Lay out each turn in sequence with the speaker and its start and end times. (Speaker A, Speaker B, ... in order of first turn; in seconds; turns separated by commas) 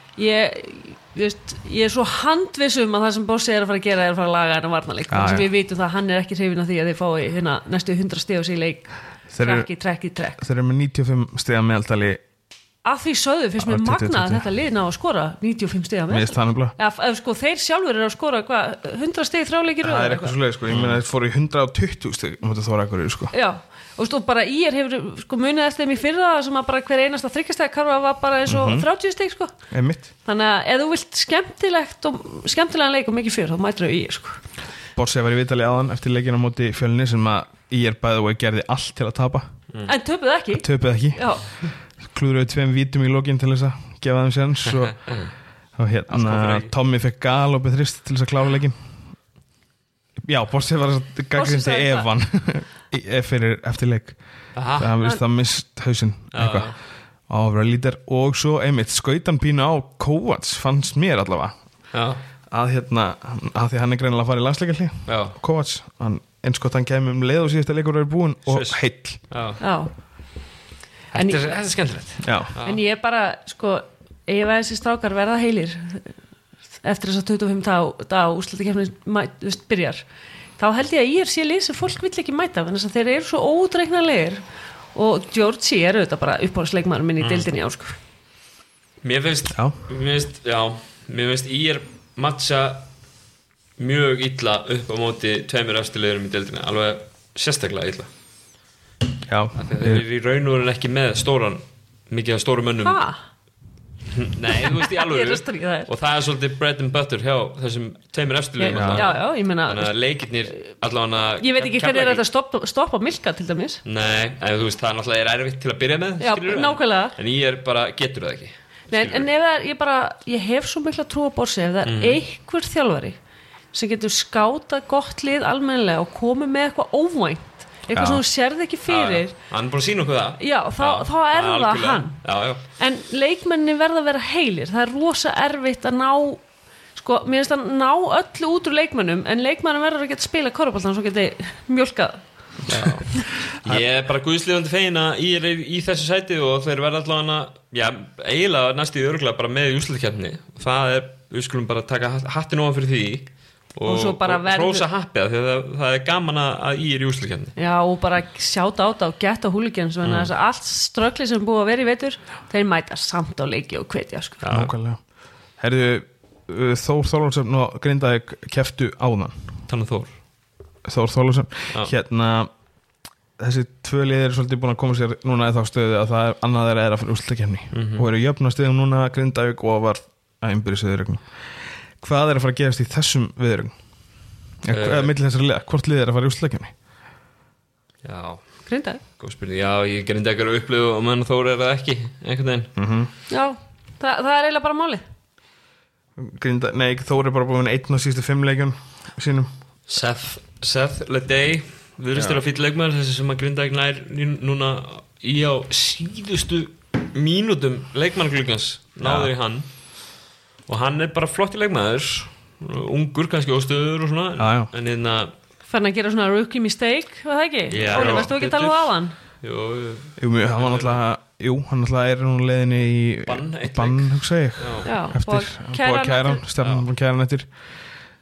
Speaker A: 0.2-10.4, Speaker B: 5.1-5.5, Speaker B: 9.3-9.7, Speaker B: 10.4-12.2, Speaker A: 12.8-20.4, Speaker B: 13.6-14.4, Speaker B: 16.1-16.8, Speaker B: 19.8-23.3, Speaker C: 20.7-21.0, Speaker A: 23.3-29.5, Speaker B: 28.5-28.9, Speaker B: 29.7-30.1, Speaker A: 30.2-34.4, Speaker B: 35.0-39.5, Speaker A: 39.9-41.7, Speaker B: 40.5-41.3, Speaker B: 42.0-45.0, Speaker C: 45.0-45.3, Speaker B: 45.8-48.8, Speaker C: 46.1-46.7, Speaker B: 50.2-54.2, Speaker A: 51.3-52.0, Speaker C: 54.5-55.0, Speaker B: 54.8-56.7, Speaker C: 56.3-56.7, Speaker B: 57.3-61.6, Speaker C: 61.9-62.2, Speaker B: 62.5-69.2, Speaker C: 65.1-65.4, Speaker C: 68.5-69.6, Speaker A: 69.6-69.9, Speaker C: 71.1-72.8, Speaker A: 71.1-71.5, Speaker B: 72.2-72.5, Speaker A: 72.6-76.1, Speaker A: 76.8-80.0, Speaker A: 80.6-84.4, Speaker A: 84.9-87.9, Speaker C: 87.2-87.5, Speaker C: 89.0-92.8, Speaker C: 93.8-98.1, Speaker B: 99.3-100.0, Speaker C: 99.5-103.0, Speaker A: 102.8-103.2, Speaker C: 104.1-112.2, Speaker A: 104.6-105.9, Speaker A: 108.6-109.9, Speaker B: 108.7-109.1, Speaker A: 111.4-113.8, Speaker C: 113.8-119.3, Speaker A: 116.2-117.1, Speaker A: 118.9-123.2, Speaker C: 121.8-122.2, Speaker A: 123.7-129.3, Speaker B: 127.9-128.2, Speaker C: 128.9-132.6, Speaker A: 130.4-132.2, Speaker A: 132.8-136.4, Speaker A: 136.9-142.2, Speaker B: 142.7-143.0, Speaker C: 142.7-157.6, Speaker A: 153.8-154.8, Speaker A: 157.6-164.4, Speaker C: 160.0-160.3, Speaker C: 164.4-164.7, Speaker B: 164.5-165.0, Speaker B: 165.6-169.3, Speaker C: 169.7-170.1, Speaker B: 170.8-172.5, Speaker B: 173.4-181.3, Speaker C: 177.7-178.1, Speaker B: 182.0-183.7, Speaker B: 184.6-186.7, Speaker C: 184.7-185.1, Speaker C: 188.0-188.5, Speaker A: 188.7-189.0, Speaker C: 189.2-192.7, Speaker B: 192.8-193.1, Speaker A: 193.3-195.0, Speaker B: 196.2-199.5, Speaker C: 199.9-209.6, Speaker B: 202.1-202.4, Speaker B: 209.0-209.3, Speaker C: 210.7-215.3, Speaker B: 214.4-214.7, Speaker A: 215.7-219.1, Speaker C: 217.7-221.0, Speaker B: 220.2-227.5, Speaker C: 223.2-224.9, Speaker A: 224.8-226.4, Speaker C: 226.6-226.8